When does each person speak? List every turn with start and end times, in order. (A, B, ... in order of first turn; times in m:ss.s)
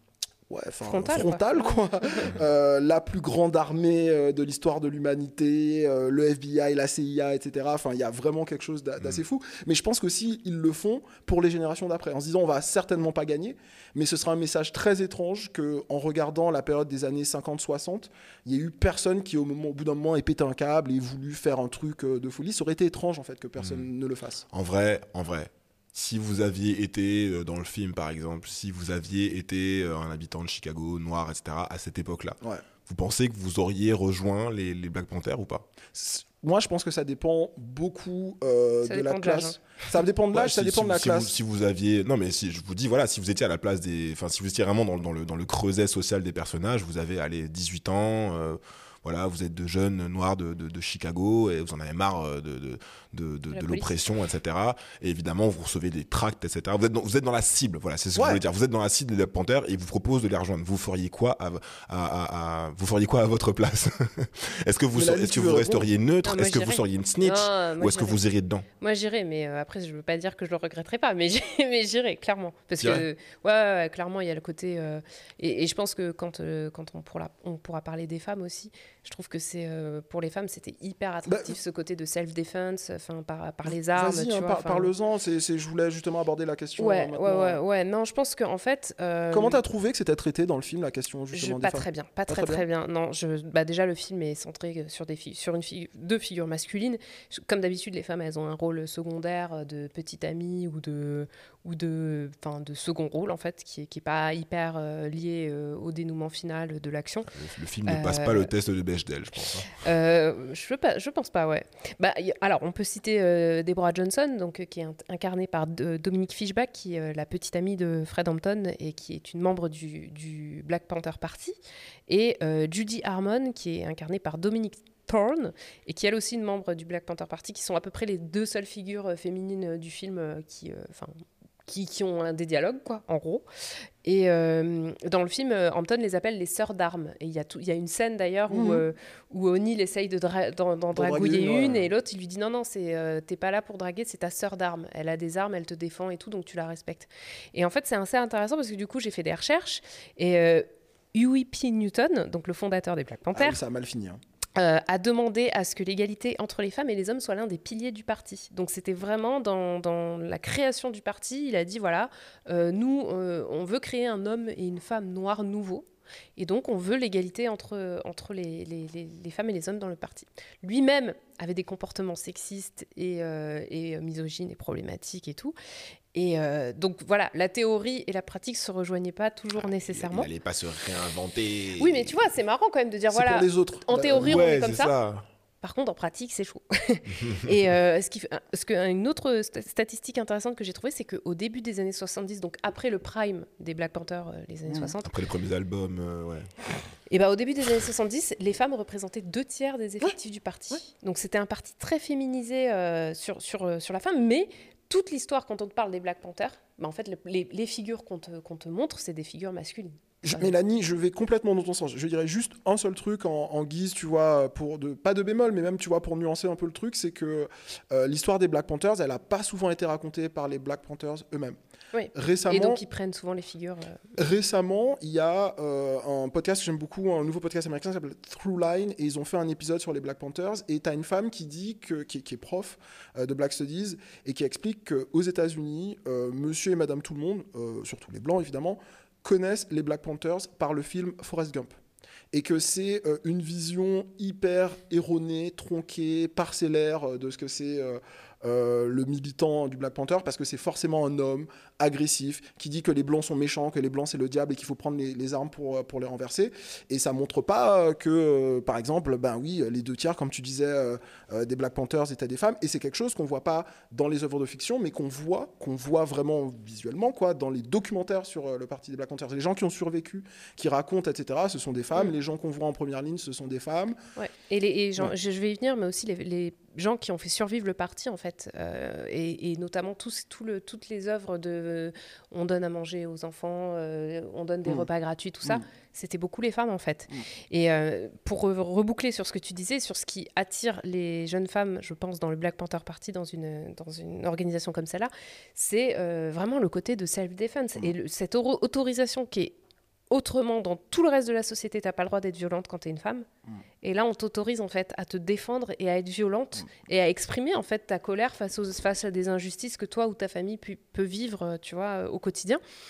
0:00.5-0:24.4 A
0:00.8-0:02.3 B
0:23.6-0:23.9 C
0:24.5-0:35.6 C
0:35.9-0:41.3 A
0:38.8-0:39.6 B
0:40.3-1:08.6 C
0:53.5-0:53.9 B
0:58.2-0:58.4 A
1:04.9-1:05.9 A
1:06.2-1:08.2 B
1:08.8-1:24.9 B
1:12.8-1:13.0 C
1:21.3-1:21.6 A
1:23.9-1:27.6 A
1:26.8-1:29.6 B
1:29.3-1:32.6 A
1:31.3-1:47.3 B
1:47.3-1:49.7 C
1:47.8-1:48.5 B
1:49.7-2:01.6 B
2:02.1-2:13.4 B
2:14.0-2:33.6 B
2:18.5-2:18.8 A
2:20.9-2:21.9 A
2:33.3-2:34.2 A
2:34.6-2:45.8 B
2:46.4-2:55.5 B
2:56.1-3:00.3 B
2:59.6-3:02.2 C
3:01.8-3:04.9 B
3:03.1-3:04.4 A
3:04.2-3:05.3 C
3:05.6-3:15.1 B
3:15.0-3:16.5 C
3:17.1-3:30.5 B
3:30.2-3:41.6 A
3:41.9-3:44.0 B
3:42.1-3:42.8 A
3:44.2-4:01.8 A
4:02.3-4:34.0 A
4:34.2-4:59.5 B
5:00.1-5:03.3 B
5:03.8-5:12.6 B